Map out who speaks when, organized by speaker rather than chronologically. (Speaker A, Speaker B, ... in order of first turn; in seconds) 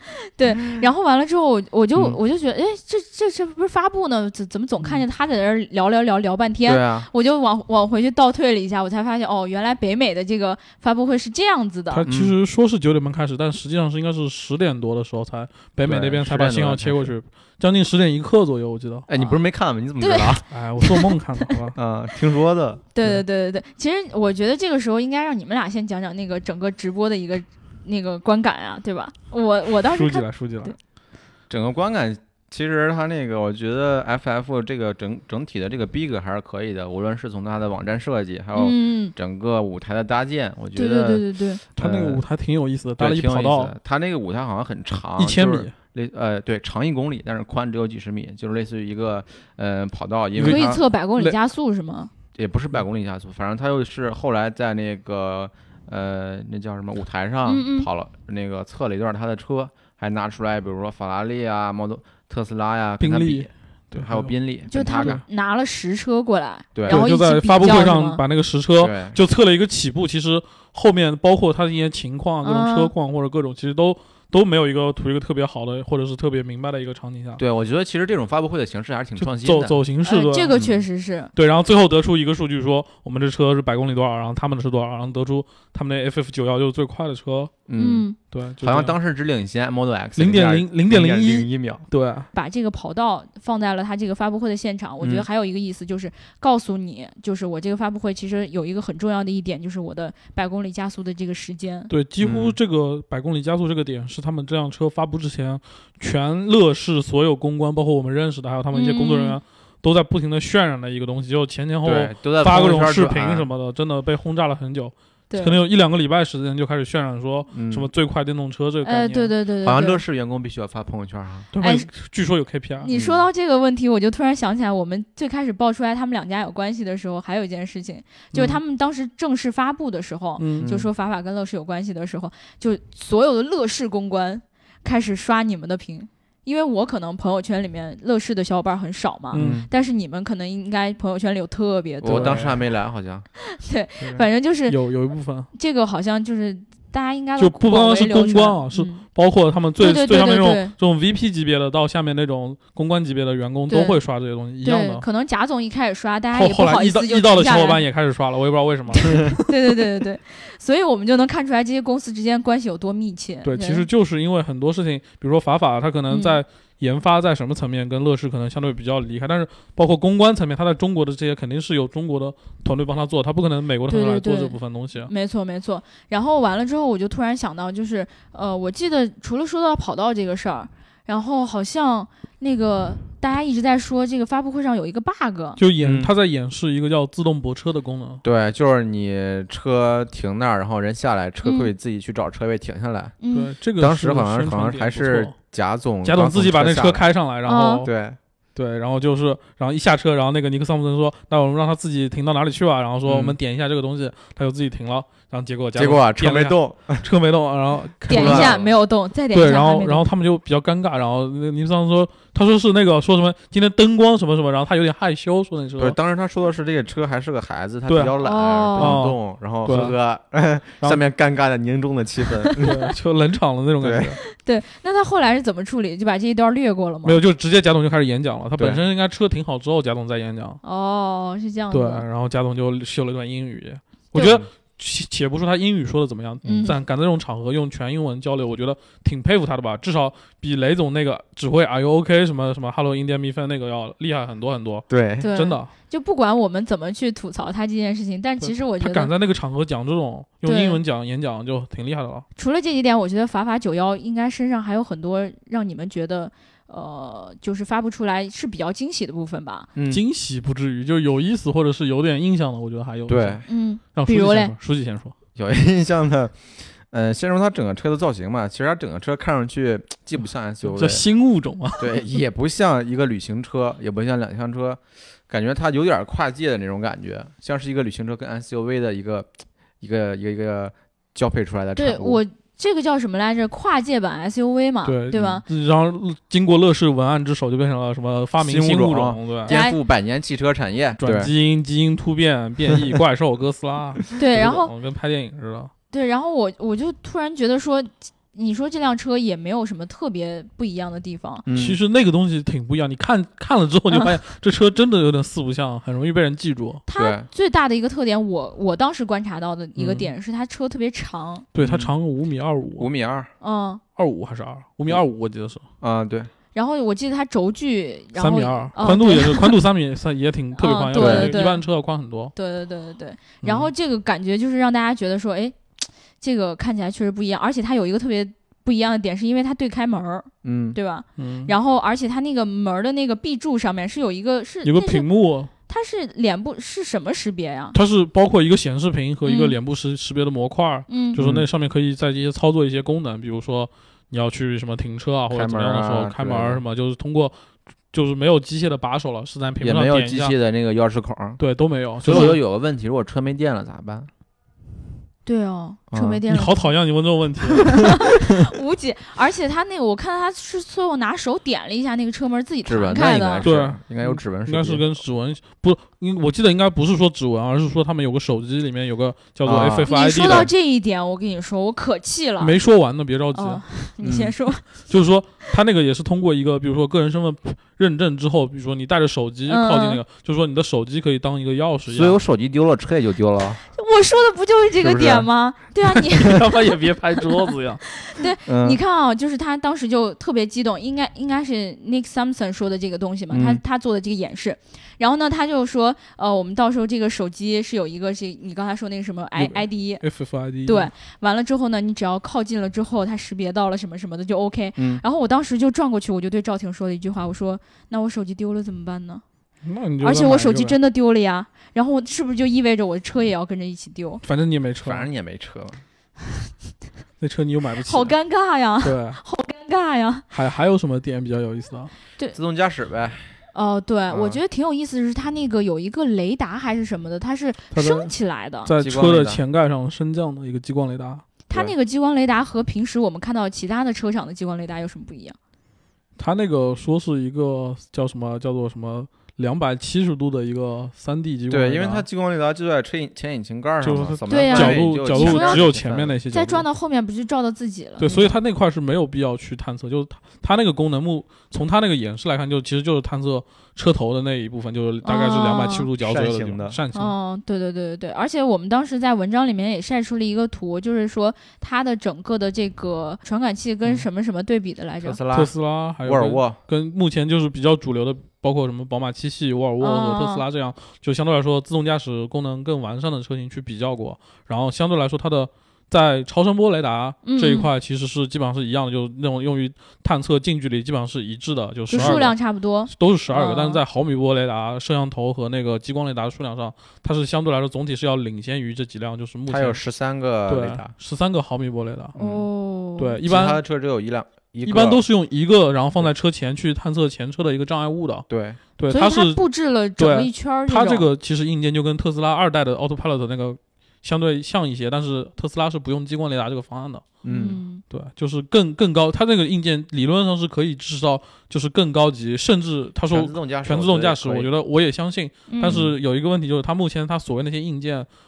Speaker A: 0.3-12.0, 20.0-21.5, 22.9-30.8, 38.5-39.1, 40.7-41.6, 50.4-52.1, 57.5-57.9, 64.7-68.2, 72.4-72.9, 80.0-81.3, 87.8-88.2, 92.3-101.9, 108.7-109.4, 115.3-115.6, 118.8-120.0, 121.6-121.9, 122.8-142.4, 143.5-144.8, 145.5-149.0, 149.8-150.7, 153.7-154.0, 154.6-157.8, 159.1-163.8, 166.1-166.4, 173.9-185.6, 191.4-191.7, 193.2-193.5, 197.4-197.8, 208.1-210.1, 218.2-219.0, 224.3-227.2, 230.6-232.0, 236.4-236.8, 245.2-249.1, 250.4-250.8, 252.3-259.7, 263.5-264.5, 281.8-285.4, 289.5-289.8, 294.1-294.7, 295.9-301.4, 306.9-311.5, 313.4-313.8, 316.5-319.6, 320.6-321.6, 322.3-335.1, 335.7-337.8, 339.2-339.6, 340.9-341.2, 355.2-356.7, 357.7-363.5, 369.9-372.6, 373.3-374.6, 379.5-380.0, 383.7-386.6, 387.5-400.0, 400.6-409.2, 410.0-414.2, 417.9-420.2, 423.5-428.7, 431.5-435.4, 444.3-445.7, 446.3-448.3, 455.0-455.9, 456.9-465.2, 469.8-470.4, 477.2-477.7, 481.9-483.8, 492.2-493.2, 498.9-501.1, 507.3-507.8, 515.5-515.8
Speaker B: 6.7-7.1, 12.1-12.3, 15.8-17.1, 19.1-20.4, 21.7-22.8, 31.5-41.2, 41.8-42.2, 43.0-50.8, 52.3-65.2, 66.7-67.0, 68.8-69.2, 77.4-79.8, 87.7-88.0, 88.6-91.8, 95.0-95.2, 102.2-102.6, 111.8-113.5, 117.5-117.9, 119.6-121.5, 122.9-123.2, 130.6-130.9, 139.3-139.7, 142.0-143.3, 185.8-186.1, 188.2-193.2, 193.8-197.0, 197.8-198.2, 203.1-203.4, 205.7-207.0, 208.1-208.7, 215.8-222.8, 223.8-224.2, 234.2-234.5, 244.9-245.3, 259.8-260.0, 263.1-263.4, 265.4-271.0, 271.8-279.3, 279.8-282.2, 285.1-285.4, 288.4-291.3, 301.4-301.8, 306.9-307.3, 311.6-311.9, 312.8-313.3, 315.8-316.3, 320.9-321.4, 330.4-330.8, 341.1-341.5, 345.3-346.6, 349.6-351.4, 352.0-354.1, 355.9-356.2, 362.6-364.8, 369.4-370.5, 374.0-374.3, 381.9-383.6, 384.8-385.3, 388.4-388.8, 393.3-393.6, 404.8-405.0, 414.8-415.8, 422.3-423.3, 424.1-424.4, 428.8-429.4, 441.5-446.1, 456.0-456.8, 465.0-466.6, 489.5-490.9, 492.1-492.4, 493.2-495.0, 498.3-498.6, 507.2-507.6, 513.1-514.5, 515.6-515.9
Speaker C: 11.9-19.1, 20.5-21.7, 29.9-30.7, 41.8-43.7, 45.2-45.7, 50.4-51.4, 63.0-64.3, 66.9-77.4, 79.2-80.5, 81.3-87.5, 88.3-88.9, 90.2-92.3, 101.9-119.3, 121.5-122.9, 128.3-128.6, 130.4-130.7, 139.3-139.7, 142.1-142.6, 144.1-145.5, 147.4-155.0, 156.3-159.4, 163.4-175.1, 185.6-188.2, 193.3-195.3, 196.0-197.9, 198.5-208.6, 209.3-216.0, 217.9-218.2, 218.8-220.0, 222.6-224.2, 227.0-230.6, 231.7-245.7, 248.4-252.2, 259.9-265.1, 270.6-271.9, 284.8-289.5, 291.0-295.7, 301.5-306.8, 309.8-310.1, 311.5-312.9, 313.9-315.6, 318.1-322.3, 323.4-323.7, 331.2-331.5, 334.6-335.5, 337.7-347.3, 347.9-350.3, 351.4-352.4, 356.3-358.0, 363.4-370.5, 372.4-373.6, 374.9-382.2, 386.2-387.8, 399.4-400.9, 409.6-410.8, 414.2-415.1, 417.2-418.1, 418.8-419.2, 420.3-421.9, 427.7-428.1, 428.6-431.2, 436.2-442.0, 443.8-446.6, 448.0-457.1, 465.3-482.4, 482.9-489.8, 490.5-492.1, 493.0-493.6, 494.6-499.4, 500.0-507.2, 507.9-518.1